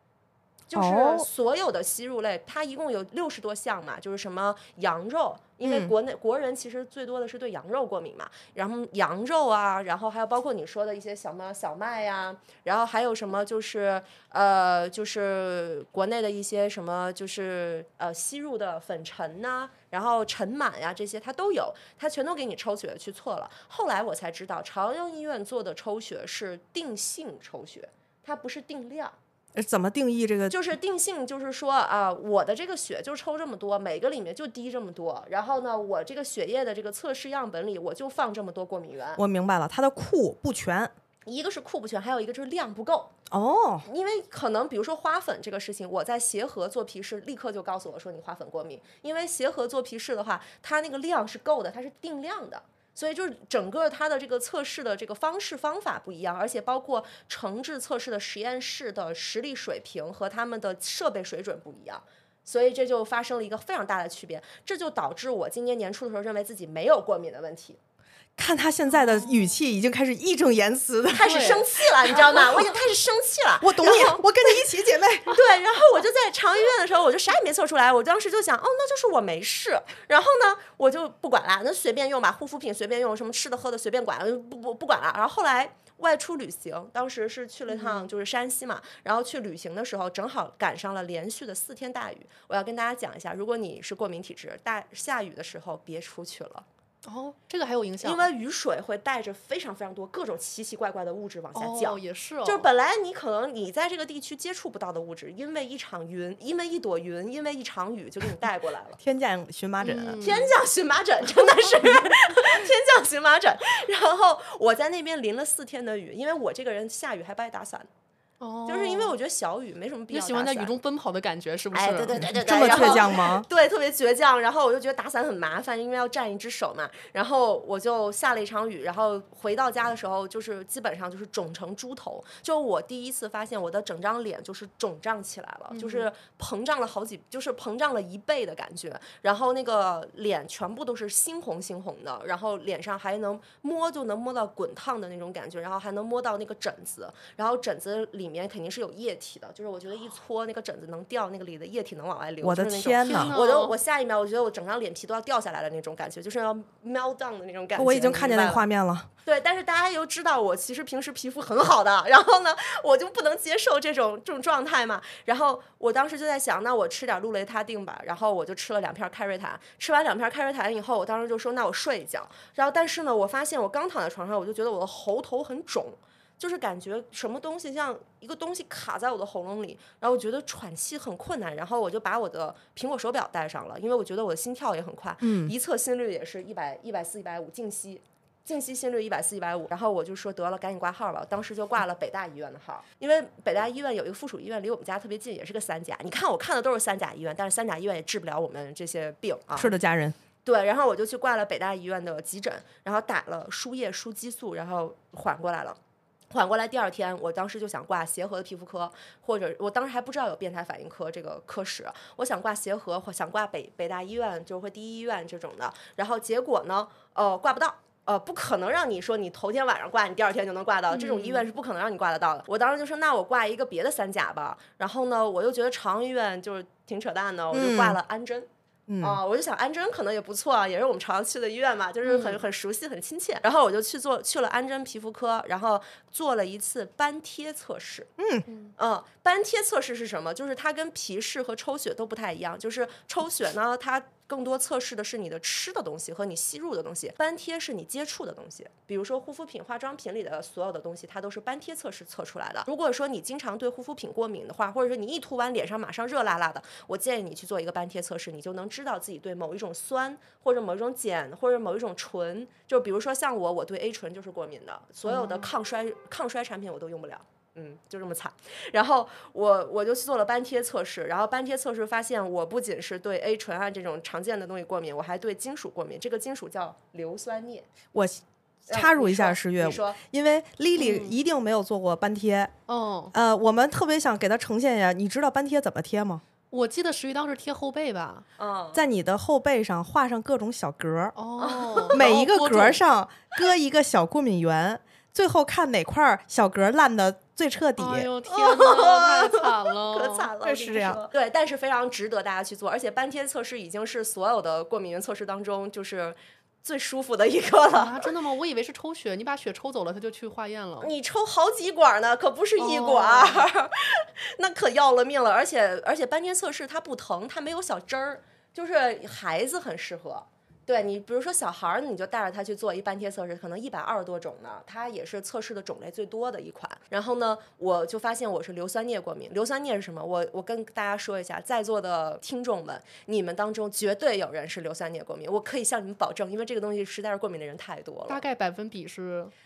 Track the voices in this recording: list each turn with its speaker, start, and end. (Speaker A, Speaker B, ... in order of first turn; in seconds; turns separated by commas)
Speaker A: 0.7-29.1, Speaker B: 0.7-1.3, Speaker B: 5.6-5.9, Speaker B: 29.5-30.6, Speaker A: 30.5-39.2, Speaker B: 39.1-40.9, Speaker A: 41.2-43.1, Speaker B: 43.3-43.9, Speaker A: 43.8-67.8, Speaker B: 68.4-71.4, Speaker C: 69.1-69.5, Speaker A: 71.1-74.6, Speaker C: 71.2-71.6, Speaker B: 73.6-75.3, Speaker A: 75.3-96.7, Speaker C: 87.7-88.1, Speaker C: 97.0-98.3, Speaker A: 98.0-109.0, Speaker C: 101.5-102.7, Speaker B: 109.0-110.2, Speaker C: 109.8-110.5, Speaker A: 110.2-117.9, Speaker C: 118.4-119.1, Speaker A: 118.7-120.8, Speaker C: 120.1-123.0, Speaker A: 121.7-158.6, Speaker B: 122.2-123.5, Speaker C: 135.7-136.1, Speaker B: 152.4-153.3, Speaker C: 153.1-153.8, Speaker B: 157.8-159.1, Speaker A: 159.2-199.8, Speaker B: 185.2-185.5, Speaker B: 199.6-200.2, Speaker A: 200.4-205.8, Speaker A: 206.3-228.5, Speaker C: 220.9-221.5, Speaker B: 227.5-228.0, Speaker B: 228.9-229.2, Speaker A: 229.0-238.1, Speaker C: 232.0-232.4, Speaker B: 238.2-238.4, Speaker C: 238.5-238.7, Speaker A: 238.8-277.7, Speaker C: 265.1-265.5, Speaker B: 277.9-282.5, Speaker A: 278.7-280.0, Speaker C: 280.8-281.2, Speaker C: 282.7-283.1, Speaker B: 283.1-286.2, Speaker C: 286.5-288.2, Speaker A: 288.4-288.8, Speaker B: 288.7-291.1, Speaker C: 291.1-292.8, Speaker A: 291.4-292.2, Speaker B: 291.9-298.1, Speaker C: 297.8-300.3, Speaker A: 298.3-308.1, Speaker B: 300.4-301.0, Speaker C: 307.7-310.9, Speaker A: 310.8-338.2, Speaker C: 312.6-313.5, Speaker C: 338.1-339.3